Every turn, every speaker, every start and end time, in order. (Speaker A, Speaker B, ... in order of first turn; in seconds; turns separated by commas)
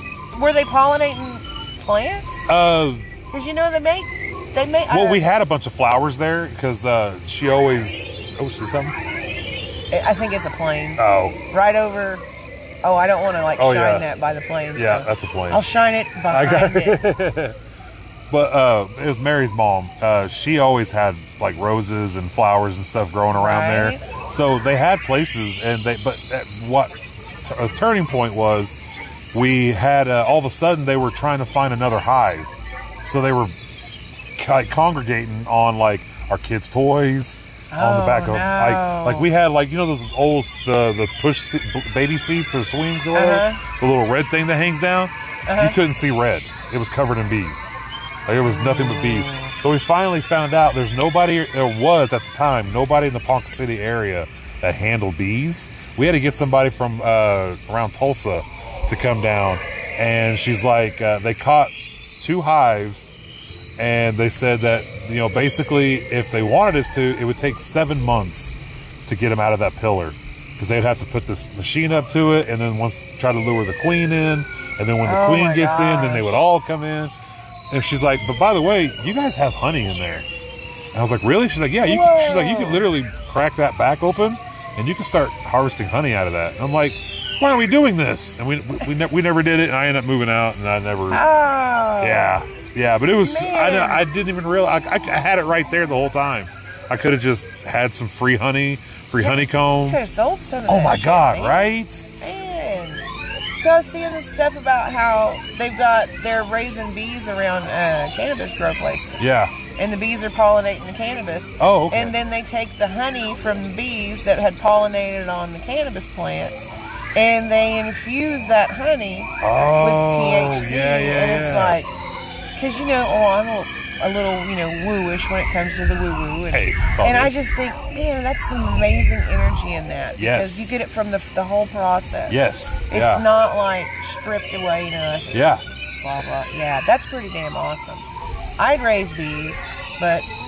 Speaker A: 0.3-2.5, Speaker B: 2.5-3.1, Speaker A: 3.3-5.2, Speaker B: 4.9-9.0, Speaker A: 9.9-12.2, Speaker B: 11.0-11.4, Speaker A: 12.8-17.0, Speaker B: 13.6-14.1, Speaker B: 14.8-15.7, Speaker B: 16.3-17.6, Speaker B: 18.3-28.8, Speaker A: 23.4-24.1, Speaker B: 29.3-32.5, Speaker B: 33.0-33.5, Speaker B: 34.4-47.7, Speaker A: 37.7-39.3, Speaker A: 43.1-43.6, Speaker A: 45.5-45.8, Speaker B: 48.3-63.1, Speaker A: 48.5-49.5, Speaker B: 63.8-77.1, Speaker A: 75.0-76.4, Speaker B: 77.7-80.3, Speaker B: 80.9-91.2, Speaker A: 81.8-82.8, Speaker A: 91.1-92.3, Speaker B: 92.0-100.0, Speaker A: 93.2-94.0, Speaker A: 99.2-101.6, Speaker B: 100.7-102.1, Speaker A: 102.2-103.1, Speaker A: 103.6-121.9, Speaker B: 109.2-109.5, Speaker B: 111.6-112.1, Speaker B: 119.4-121.8, Speaker A: 122.6-140.3, Speaker B: 126.5-127.3, Speaker B: 130.2-130.8, Speaker B: 132.3-133.2, Speaker B: 135.3-135.6